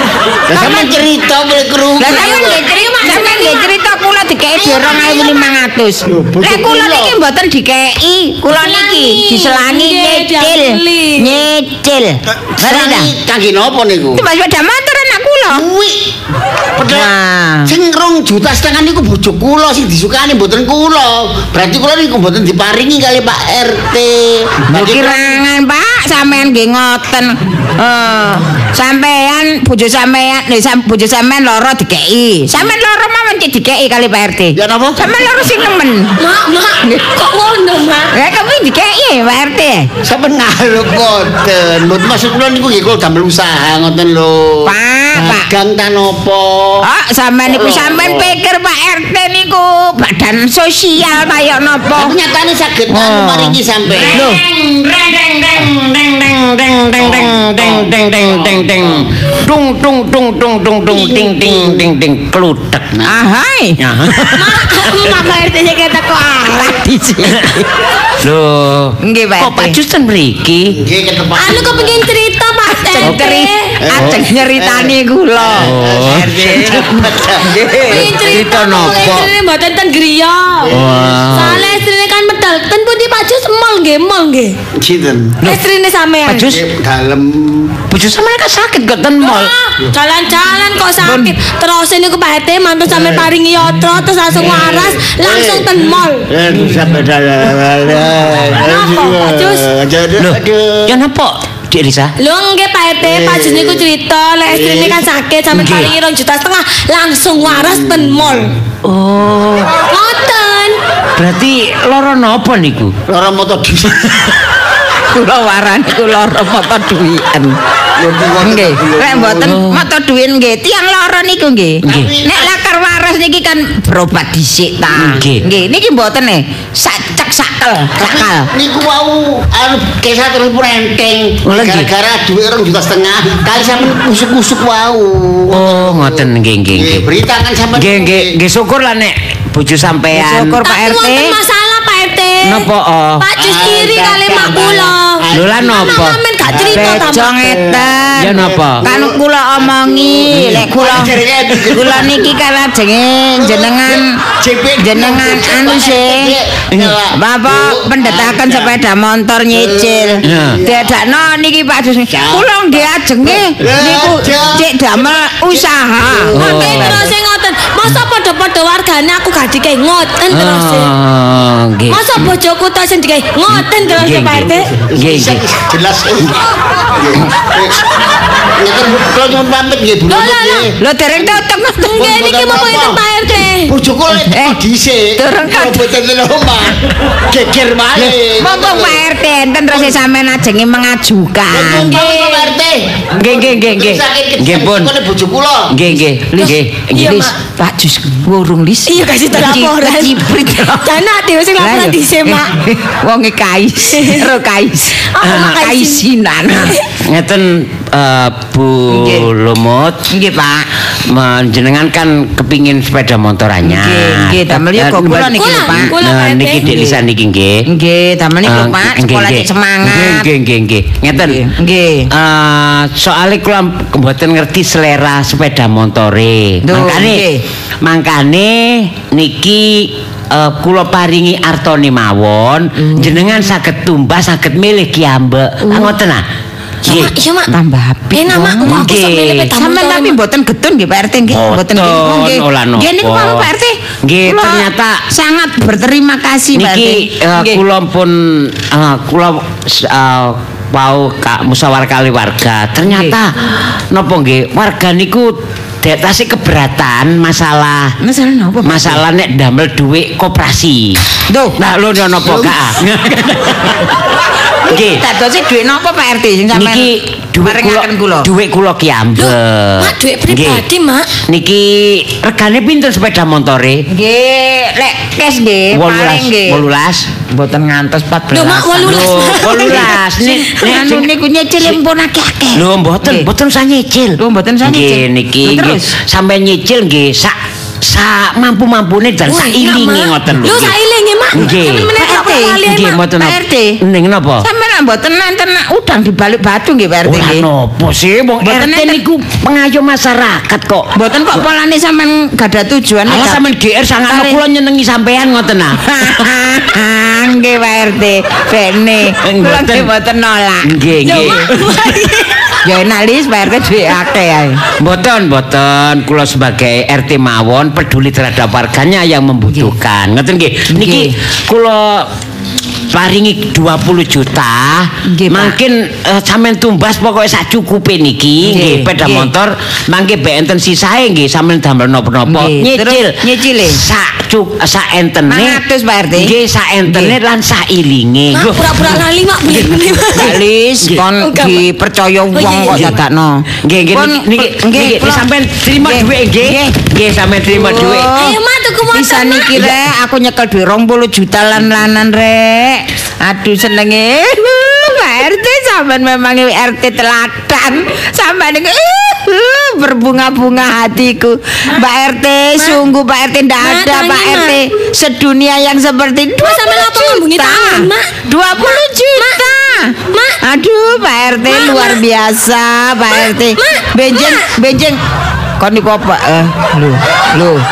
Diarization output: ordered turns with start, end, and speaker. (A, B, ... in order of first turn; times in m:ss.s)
0:00.5-0:02.6 A
0:00.5-0:00.8 B
0:02.0-0:13.1 B
0:02.0-0:03.7 C
0:06.1-0:07.2 A
0:08.5-0:11.4 C
0:12.5-0:14.3 A
0:14.2-0:15.7 B
0:15.5-0:16.1 A
0:16.8-0:17.1 A
0:16.9-0:17.7 B
0:17.7-0:25.3 A
0:24.7-0:36.2 B
0:34.6-0:35.1 A
0:36.2-0:38.1 C
0:38.1-0:39.9 B
0:40.0-0:46.9 A
0:44.6-0:45.5 B
0:46.8-0:52.2 B
0:47.5-0:48.4 A
0:52.0-0:54.3 A
0:52.9-0:53.6 B
0:53.9-1:02.9 D
0:54.1-0:54.4 B
0:57.0-0:59.1 A
1:00.9-1:01.9 A
1:03.0-1:03.8 B
1:03.8-1:05.2 D
1:04.3-1:06.8 C
1:06.4-1:07.7 B
1:07.2-1:07.6 D
1:08.2-1:10.8 D
1:09.0-1:09.8 B
1:10.7-1:12.1 A
1:11.4-1:13.7 C
1:12.9-1:18.2 B
1:13.8-1:19.3 A
1:15.6-1:16.9 D
1:17.8-1:20.7 C
1:18.0-1:19.3 D
1:20.6-1:21.8 A
1:20.7-1:21.7 D
1:21.3-1:24.6 C
1:24.7-1:25.4 A
1:25.4-1:26.6 C
1:26.2-1:26.6 D
1:26.4-1:27.8 A
1:27.9-1:29.6 D
1:29.2-1:36.3 C
1:31.0-1:31.3 B
1:32.9-1:33.3 A
1:34.3-1:41.0 A
1:38.6-1:39.7 C
1:40.2-1:42.2 D
1:42.2-1:48.5 C
1:43.0-1:43.9 A
1:44.5-1:45.1 A
1:45.5-1:45.9 D
1:47.5-1:48.4 A
1:48.8-1:49.7 D
1:49.8-1:50.8 C
1:51.2-1:52.9 D
1:53.1-1:54.4 A
1:55.1-1:57.6 B
1:58.0-1:59.6 A
1:58.4-2:08.5 B
1:59.4-1:59.8 D
2:01.8-2:02.5 A
2:01.8-2:02.1 D
2:04.9-2:05.4 D
2:08.0-2:18.3 A
2:11.4-2:11.9 D
2:15.5-2:17.0 D
2:17.8-2:20.6 D
2:20.1-2:21.4 B
2:20.6-2:22.7 C
2:22.4-2:23.3 D
2:23.2-2:27.4 C
2:23.4-2:32.4 A
2:25.3-2:26.2 D
2:26.7-2:34.2 B
2:28.2-2:28.8 D
2:33.4-2:38.8 A
2:34.8-2:36.4 B
2:37.1-2:47.1 B
2:39.5-2:41.0 A
2:40.2-2:40.6 D
2:42.1-2:46.7 A
2:46.3-2:47.1 D
2:46.4-2:50.9 C
2:50.3-2:52.3 D
2:51.9-2:54.7 C
2:53.5-2:55.4 D
2:54.8-2:57.8 A
2:58.4-3:09.0 A
3:00.1-3:00.7 C
3:00.8-3:02.0 B
3:01.8-3:03.7 C
3:04.2-3:04.6 B
3:05.2-3:05.8 B
3:08.4-3:12.0 B
3:09.7-3:10.0 A
3:11.5-3:15.8 A
3:11.9-3:12.5 C
3:13.2-3:14.9 D
3:15.7-3:17.3 D
3:16.4-3:17.4 C
3:17.5-3:20.9 B
3:18.9-3:22.5 C
3:21.6-3:26.8 B
3:23.9-3:24.3 C
3:25.0-3:26.9 C
3:25.2-3:25.6 D
3:27.0-3:30.0 D
3:28.9-3:29.3 B
3:30.1-3:30.7 B
3:31.1-3:37.6 D
3:33.6-3:35.9 B
3:35.4-3:36.7 C
3:36.6-3:37.0 B
3:37.7-3:40.3 B
3:38.4-3:41.4 D
3:41.1-3:42.1 B
3:42.1-3:47.3 D
3:46.7-3:47.4 B
3:47.8-3:56.2 D
3:52.8-3:53.2 B
3:55.7-3:55.9 C
3:56.8-3:57.1 D
3:56.8-3:57.5 C
3:57.5-3:58.9 B
3:58.1-4:00.2 C
3:58.5-3:59.5 D
3:59.6-4:07.6 B
4:01.3-4:03.5 D
4:04.0-4:05.0 D
4:06.6-4:13.3 D
4:12.8-4:13.2 B
4:13.9-4:18.0 D
4:18.0-4:19.0 B
4:18.6-4:21.0 D
4:21.3-4:21.6 B
4:21.6-4:24.0 D
4:22.2-4:22.6 A
4:24.7-4:25.0 D
4:24.7-4:26.9 B
4:26.5-4:30.6 D
4:27.4-4:28.3 B
4:29.2-4:31.1 C
4:31.3-4:33.8 D
4:33.9-4:36.6 B
4:35.7-4:37.1 D
4:37.3-4:43.3 B
4:38.3-4:40.7 C
4:38.8-4:41.1 D
4:42.6-4:50.8 D
4:44.2-4:45.9 B
4:49.3-4:53.0 C
4:51.3-4:51.9 D
4:52.0-4:52.6 B
4:52.6-4:54.5 D
4:53.2-4:53.8 B
4:54.4-4:57.5 B
4:57.0-5:00.9 D
4:58.4-4:59.0 B
5:01.0-5:03.4 B
5:03.1-5:06.3 D
5:04.1-5:04.4 B
5:05.8-5:11.4 B
5:09.2-5:09.9 D
5:10.6-5:11.9 D
5:11.0-5:12.3 C
5:12.6-5:14.6 B
5:14.8-5:22.1 D
5:20.7-5:21.1 B
5:22.9-5:35.6 D
5:25.1-5:25.6 B
5:28.4-5:29.3 B
5:32.3-5:33.8 B
5:35.3-5:36.3 B
5:36.2-5:40.2 D
5:36.9-5:37.2 B
5:38.3-5:40.4 C
5:40.1-5:46.8 B
5:41.2-5:41.7 C
5:42.3-5:43.0 C
5:43.6-5:48.2 D
5:47.5-5:48.4 B
5:48.0-5:49.8 C
5:48.9-6:15.0 B
6:03.6-6:04.6 C
6:06.4-6:08.1 C
6:08.6-6:09.5 C
6:10.1-6:10.4 C
6:11.5-6:12.0 C
6:13.1-6:14.5 C
6:15.6-6:17.6 B